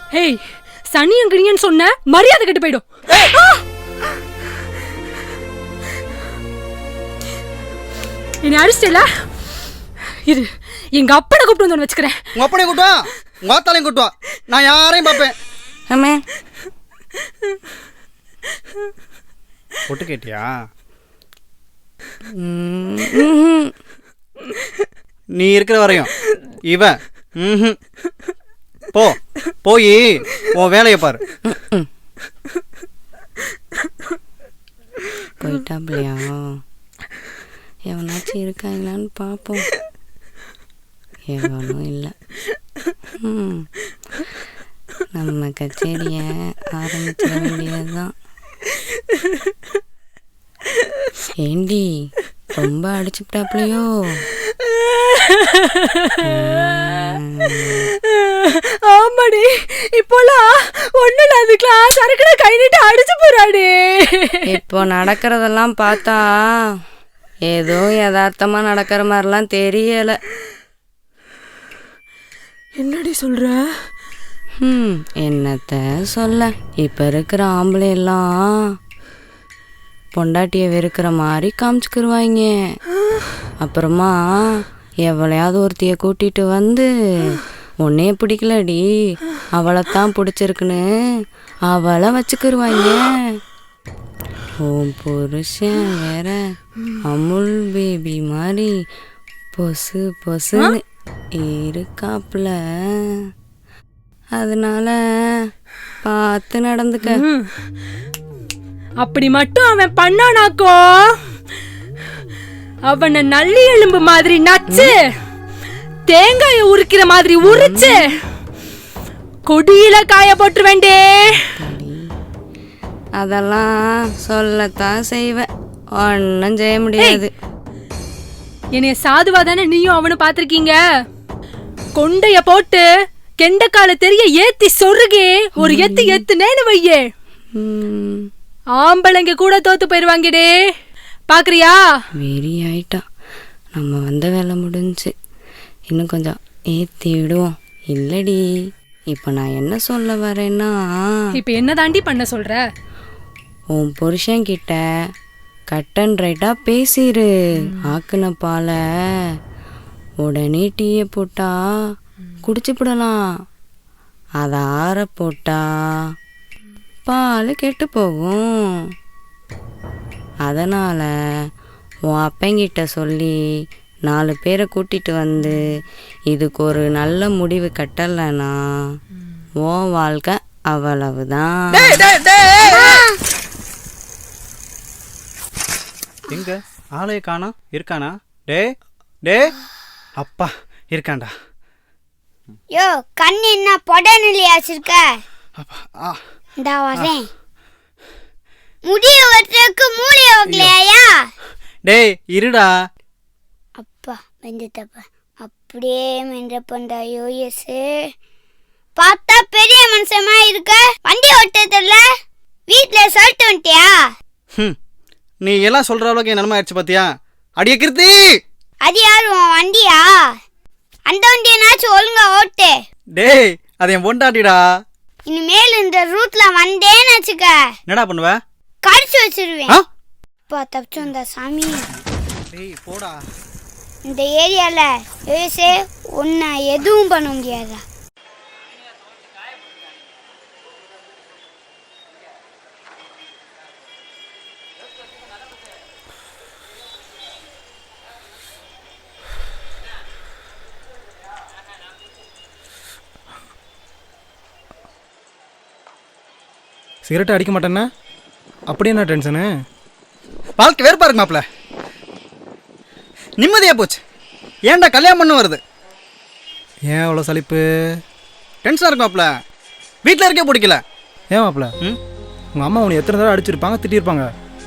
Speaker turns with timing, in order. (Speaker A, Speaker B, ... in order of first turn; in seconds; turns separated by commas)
Speaker A: 0.1-2.8, Speaker A: 8.4-9.1, Speaker A: 10.1-12.3, Speaker B: 12.3-15.3, Speaker C: 15.9-16.2, Speaker B: 19.9-20.5, Speaker C: 22.4-23.7, Speaker B: 25.3-26.1, Speaker B: 26.7-27.8, Speaker B: 28.9-31.2, Speaker C: 31.4-31.9, Speaker C: 35.4-36.6, Speaker C: 37.9-39.7, Speaker C: 41.3-42.1, Speaker C: 43.2-43.7, Speaker C: 45.1-48.1, Speaker C: 51.4-54.2, Speaker A: 54.5-56.4, Speaker C: 56.2-57.9, Speaker A: 57.5-64.5, Speaker C: 64.5-66.3, Speaker C: 67.5-70.2, Speaker A: 72.8-73.9, Speaker C: 74.6-78.8, Speaker C: 80.2-82.8, Speaker C: 83.6-90.9, Speaker C: 91.7-93.4, Speaker C: 94.6-96.4, Speaker C: 97.0-98.8, Speaker C: 99.6-100.8, Speaker C: 101.4-102.6, Speaker C: 104.4-105.5, Speaker C: 106.0-107.2, Speaker A: 107.1-107.5, Speaker A: 109.0-111.3, Speaker A: 112.8-115.1, Speaker C: 114.7-114.9, Speaker A: 116.1-118.2, Speaker C: 117.4-118.1, Speaker A: 119.5-121.6, Speaker C: 121.6-122.1, Speaker C: 123.2-125.5, Speaker C: 126.0-127.3, Speaker A: 127.0-127.2, Speaker A: 128.8-130.8, Speaker A: 132.0-132.8, Speaker A: 133.4-137.0, Speaker C: 135.6-136.2, Speaker C: 137.6-138.3, Speaker A: 138.8-140.5, Speaker A: 141.3-141.8, Speaker C: 142.2-143.0, Speaker C: 143.8-145.1, Speaker C: 145.9-148.4, Speaker C: 149.1-151.2, Speaker A: 151.3-152.6, Speaker C: 153.7-154.8, Speaker C: 155.7-158.8, Speaker A: 157.6-158.0, Speaker C: 160.2-161.5, Speaker C: 162.4-163.2, Speaker C: 164.4-165.6, Speaker C: 167.1-168.5, Speaker C: 170.4-171.1, Speaker C: 172.1-173.3, Speaker C: 174.1-175.6, Speaker C: 176.3-179.0, Speaker C: 179.6-182.0, Speaker B: 181.7-183.0, Speaker D: 182.6-183.1, Speaker B: 186.3-188.7, Speaker B: 189.2-189.5, Speaker B: 190.2-191.3, Speaker D: 192.7-195.2, Speaker B: 195.6-196.2, Speaker D: 196.6-197.3, Speaker D: 198.8-201.1, Speaker B: 200.5-200.8, Speaker B: 201.8-202.7, Speaker D: 203.8-207.9, Speaker D: 209.0-212.0, Speaker D: 212.7-214.0, Speaker B: 215.4-217.1, Speaker B: 217.6-218.2, Speaker D: 218.8-220.1, Speaker D: 221.1-222.8, Speaker B: 223.2-224.6, Speaker D: 225.3-227.6, Speaker B: 227.9-228.3, Speaker D: 228.8-229.8, Speaker D: 230.5-231.8, Speaker B: 232.5-233.2, Speaker D: 234.1-237.8, Speaker E: 257.1-257.9, Speaker E: 258.7-259.5, Speaker B: 260.6-261.4, Speaker B: 263.4-264.0, Speaker B: 264.7-265.6, Speaker E: 266.9-267.6, Speaker B: 268.6-269.3, Speaker B: 270.0-270.8, Speaker E: 271.3-271.7, Speaker E: 272.5-274.3